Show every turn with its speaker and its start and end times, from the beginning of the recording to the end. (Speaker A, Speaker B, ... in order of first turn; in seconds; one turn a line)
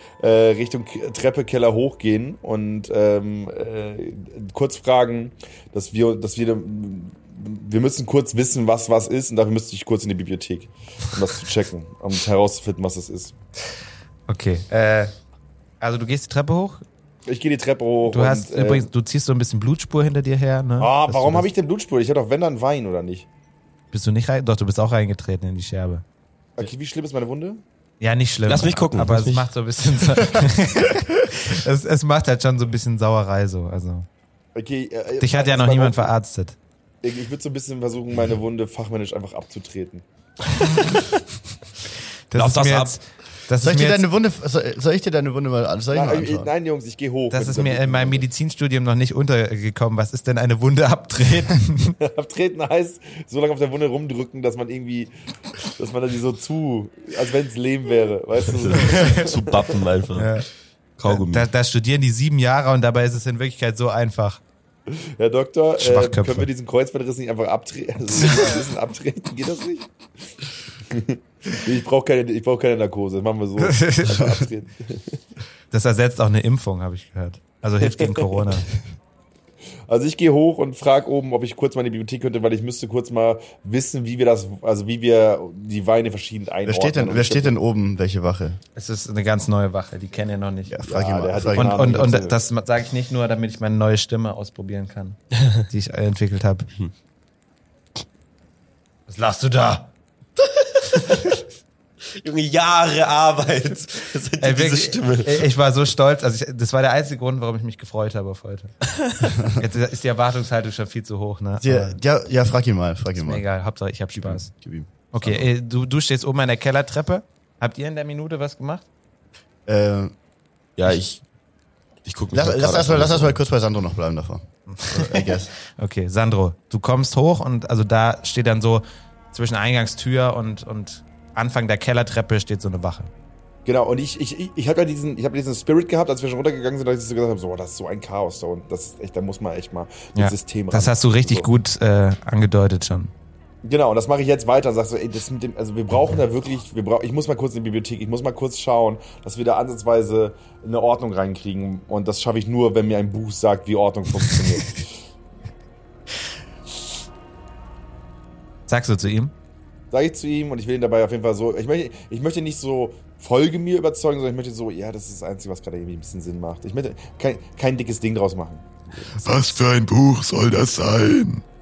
Speaker A: 0.2-13.3
Speaker B: 14.3-15.1
Speaker B: 15.8-16.8
Speaker A: 17.2-18.9
Speaker B: 18.1-21.5
Speaker A: 20.8-23.3
Speaker B: 23.9-26.0
Speaker A: 26.6-27.6
Speaker B: 28.0-34.1
Speaker C: 28.5-29.5
Speaker A: 34.5-36.1
Speaker B: 35.2-36.6
Speaker A: 37.0-40.0
Speaker B: 42.3-44.1
Speaker C: 42.3-43.0
Speaker D: 43.6-46.5
Speaker A: 45.9-48.2
Speaker B: 47.3-52.0
Speaker A: 52.0-59.8
Speaker C: 58.6-60.3
Speaker B: 58.9-59.2
Speaker B: 60.1-60.5
Speaker C: 61.0-61.5
Speaker B: 61.0-64.4
Speaker A: 64.9-69.9
Speaker B: 65.8-66.5
Speaker A: 70.9-75.2
Speaker B: 73.6-74.3
Speaker B: 75.7-78.7
Speaker A: 77.8-78.5
Speaker A: 79.9-87.5
Speaker D: 86.6-88.6
Speaker B: 88.8-90.8
Speaker D: 90.7-92.0
Speaker A: 90.8-92.4
Speaker B: 91.5-96.7
Speaker B: 99.1-99.9
Speaker C: 100.9-101.1
Speaker C: 102.1-105.5
Speaker B: 104.4-108.7
Speaker B: 109.5-112.0
Speaker D: 111.6-113.4
Speaker B: 113.2-114.5
Speaker D: 114.1-115.5
Speaker B: 115.1-118.8
Speaker D: 119.7-120.1
Speaker C: 120.8-121.2
Speaker C: 122.0-123.4
Speaker D: 122.3-125.5
Speaker B: 124.7-133.1
Speaker A: 133.6-141.5
Speaker B: 140.1-143.1
Speaker A: 143.6-154.9
Speaker B: 158.7-159.3
Speaker A: 159.9-169.6
Speaker E: 169.2-171.4